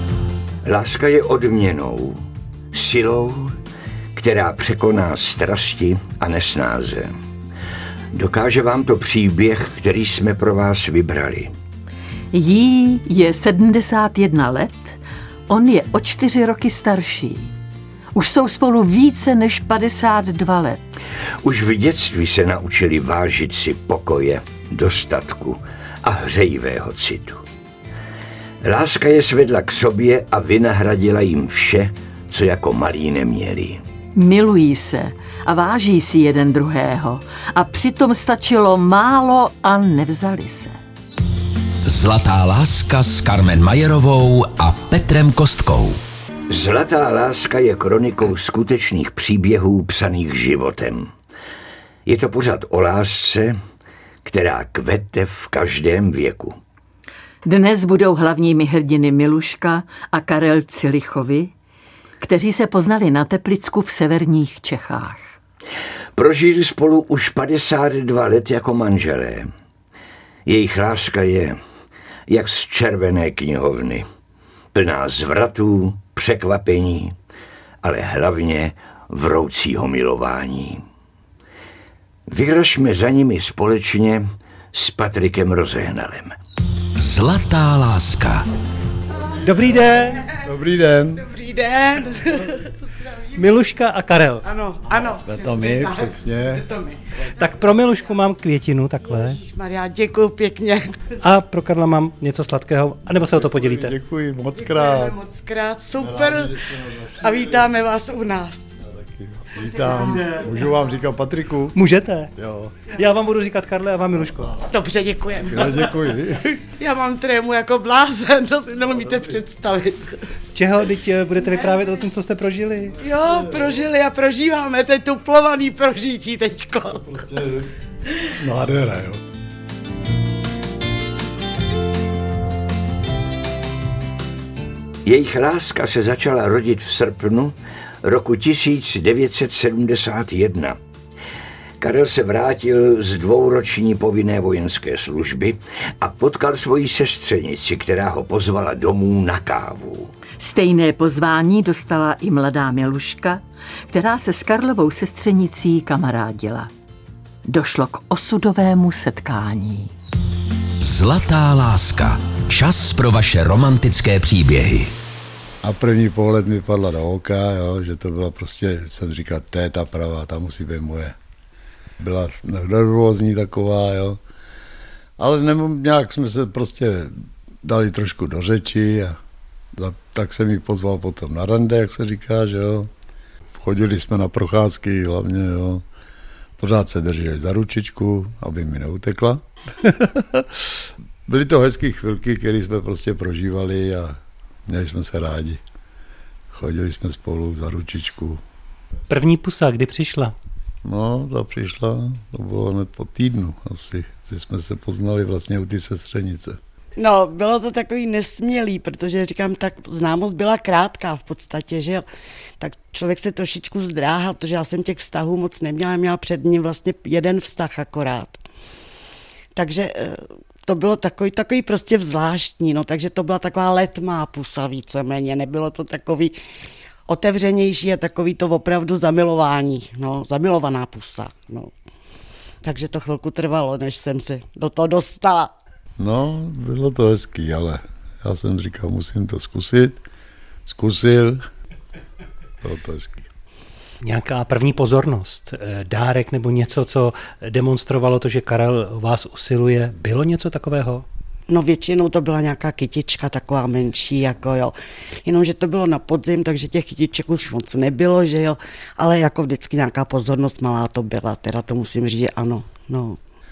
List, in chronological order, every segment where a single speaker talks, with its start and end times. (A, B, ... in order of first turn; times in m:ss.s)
0:00.6-0:02.2 A
0:02.7-0:03.6 A
0:04.2-0:07.1 A
0:08.1-0:11.5 A
0:12.3-0:17.5 B
0:18.1-0:20.9 B
0:21.4-0:27.4 A
0:28.6-0:33.8 A
0:34.2-0:40.8 B
0:41.8-0:46.0 C
0:46.5-0:51.1 A
0:52.1-0:53.6 A
0:54.2-0:56.6 A
0:57.4-1:01.5 B
1:02.2-1:05.4 B
1:06.2-1:09.5 A
1:10.5-1:11.6 A
1:12.3-1:14.1 A
1:14.7-1:17.2 A
1:17.8-1:20.8 A
1:22.3-1:26.4 A
1:27.0-1:28.5 C
1:29.4-1:30.3 D
1:30.3-1:31.3 E
1:31.2-1:33.4 F
1:33.3-1:34.5 D
1:34.4-1:37.2 F
1:34.9-1:36.7 E
1:37.4-1:39.4 D
1:39.1-1:41.1 F
1:41.2-1:44.0 D
1:43.2-1:45.2 E
1:44.6-1:46.6 F
1:46.0-1:47.7 E
1:47.1-1:48.8 F
1:48.8-1:51.8 E
1:49.6-1:50.6 F
1:51.8-1:52.3 D
1:52.4-1:53.0 E
1:52.9-1:54.6 D
1:54.7-1:56.1 F
1:55.4-1:56.6 E
1:56.6-2:00.2 F
2:00.4-2:03.0 D
2:03.0-2:07.2 F
2:03.2-2:03.8 E
2:07.1-2:07.7 E
2:08.4-2:09.3 E
2:15.0-2:20.8 A
2:21.8-2:30.1 A
2:30.4-2:36.7 B
2:37.5-2:39.9 B
2:40.8-2:44.9 C
2:45.6-2:51.2 E
2:52.0-2:54.2 E
2:55.2-2:59.2 E
2:59.7-3:02.9 E
3:03.6-3:05.8 E
3:06.6-3:15.6 E
3:16.5-3:18.4 E
3:19.1-3:20.4 D
3:20.8-3:26.6 E
3:27.0-3:32.0 F
3:32.6-3:38.4 F
3:39.5-3:46.4 F
3:47.1-3:51.7 F
3:52.6-3:55.5 F
3:56.0-4:00.0 E
4:00.7-4:01.4 E
4:02.6-4:03.3 E
4:04.0-4:11.1 D
4:11.5-4:14.7 F
4:15.2-4:23.2 F